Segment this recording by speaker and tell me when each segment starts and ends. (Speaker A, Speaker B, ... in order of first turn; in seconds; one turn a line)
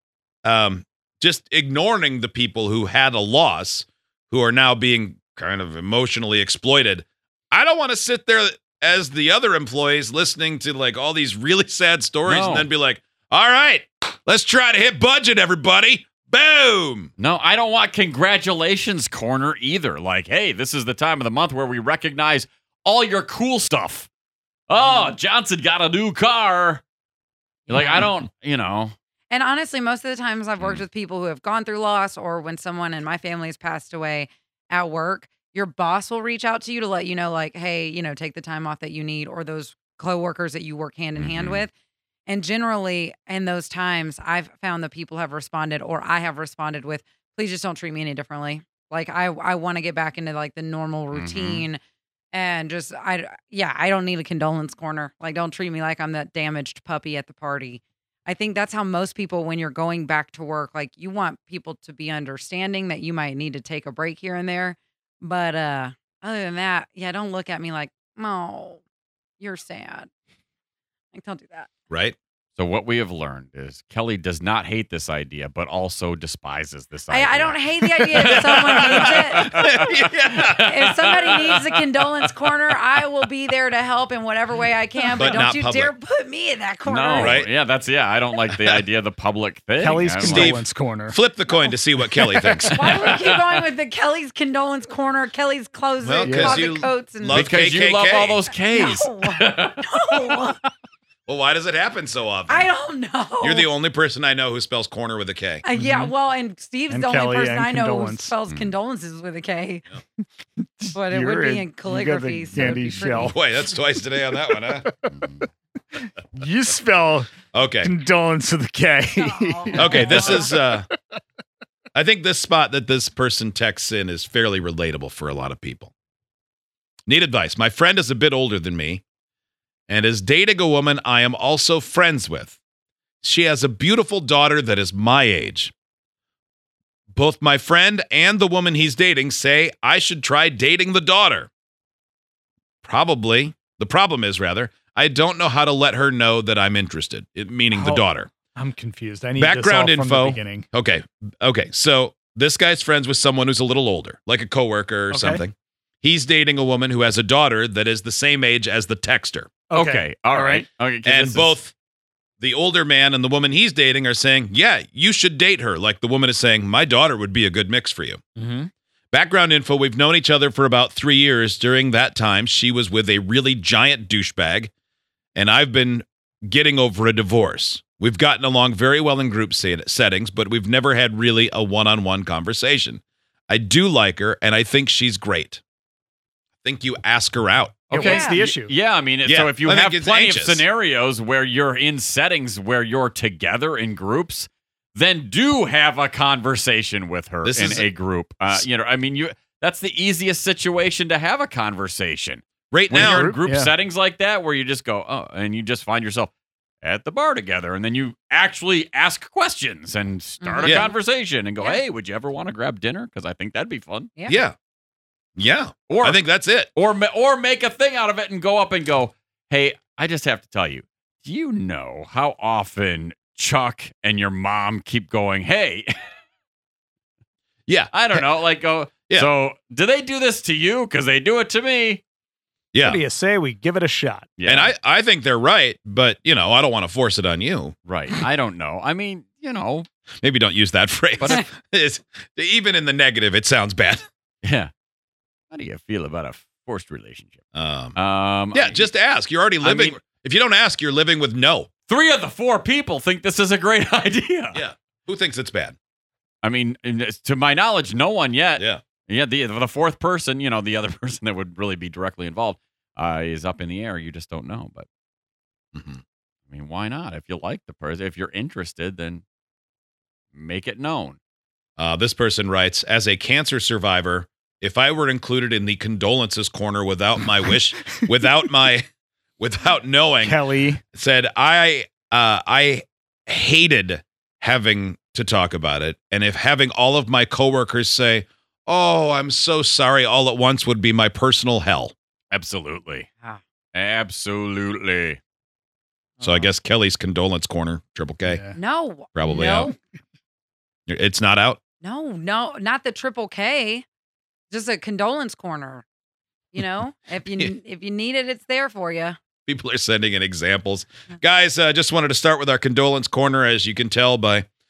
Speaker A: 0.4-17.1
Speaker B: 12.2-12.7
Speaker B: 17.2-24.1
Speaker B: 24.7-26.8
Speaker C: 27.7-28.1
Speaker B: 27.7-28.9
Speaker C: 29.3-41.7
Speaker B: 41.2-41.6
Speaker C: 42.3-51.8
Speaker B: 51.1-51.6
Speaker C: 52.3-68.8
Speaker C: 69.4-70.1
Speaker C: 71.1-71.7
Speaker A: 71.9-72.1
Speaker B: 72.5-81.8
Speaker C: 77.1-79.5
Speaker A: 78.8-80.5
Speaker C: 80.6-87.4
Speaker A: 85.2-85.9
Speaker B: 86.8-90.6
Speaker A: 87.2-87.5
Speaker D: 89.8-91.2
Speaker A: 90.2-92.9
Speaker D: 92.2-92.6
Speaker B: 92.7-93.6
Speaker C: 92.7-97.5
Speaker A: 96.0-98.4
Speaker D: 96.2-96.7
Speaker B: 97.3-100.4
Speaker C: 98.7-100.6
Speaker A: 101.2-102.7
Speaker C: 102.5-103.7
Speaker A: 103.4-105.6
Speaker C: 105.6-109.8
Speaker D: 105.8-106.1
Speaker D: 106.9-108.3
Speaker D: 110.8-113.4
Speaker C: 110.9-113.4
Speaker A: 113.1-114.9
Speaker D: 114.5-115.1
Speaker B: 115.1-115.5
Speaker D: 116.0-117.3
Speaker A: 117.5-117.9
Speaker D: 117.8-120.9
Speaker C: 119.2-120.6
Speaker A: 119.8-120.9
Speaker A: 121.9-125.9
Speaker A: 127.1-129.0
Speaker A: 129.9-132.6
Speaker A: 133.2-135.7
Speaker A: 137.1-141.5
Speaker A: 142.8-148.3
Speaker D: 147.7-150.7
Speaker A: 149.4-159.5
Speaker D: 155.1-155.4
Speaker D: 159.7-160.7
Speaker B: 159.7-161.5
Speaker A: 161.0-161.7
Speaker A: 162.4-168.2
Speaker D: 168.4-168.7
Speaker A: 169.1-174.7
Speaker A: 175.3-185.6
Speaker A: 186.6-187.8
Speaker D: 187.9-188.7
Speaker B: 187.9-206.3
Speaker C: 187.9-188.4
Speaker A: 189.2-190.6
Speaker A: 197.4-197.8
Speaker A: 202.7-203.3
Speaker D: 202.9-203.7
Speaker B: 206.8-214.1
Speaker C: 210.4-210.9
Speaker A: 210.6-210.9
Speaker A: 214.3-214.5
Speaker A: 215.4-216.7
Speaker B: 215.9-216.2
Speaker B: 216.7-225.9
Speaker A: 227.7-228.2
Speaker B: 227.9-232.0
Speaker A: 232.7-233.0
Speaker D: 232.8-234.3
Speaker B: 234.4-234.7
Speaker A: 234.4-237.7
Speaker B: 237.8-239.9
Speaker A: 240.2-244.0
Speaker B: 244.4-244.7
Speaker B: 245.5-247.4
Speaker A: 247.5-247.9
Speaker B: 247.9-248.9
Speaker A: 248.5-251.7
Speaker B: 249.6-250.0
Speaker B: 251.9-254.6
Speaker A: 254.5-255.8
Speaker B: 256.4-264.9
Speaker A: 265.7-266.0
Speaker B: 266.5-269.2
Speaker B: 270.3-271.2
Speaker A: 271.8-278.9
Speaker A: 279.4-280.4
Speaker D: 280.2-280.8
Speaker A: 280.9-291.9
Speaker B: 292.3-293.1
Speaker B: 293.7-295.2
Speaker D: 296.2-296.5
Speaker A: 296.2-298.4
Speaker D: 298.2-298.6
Speaker C: 298.5-299.7
Speaker A: 299.1-299.7
Speaker A: 300.9-301.6
Speaker C: 301.8-303.8
Speaker C: 304.5-305.8
Speaker C: 306.5-309.2
Speaker A: 309.4-314.4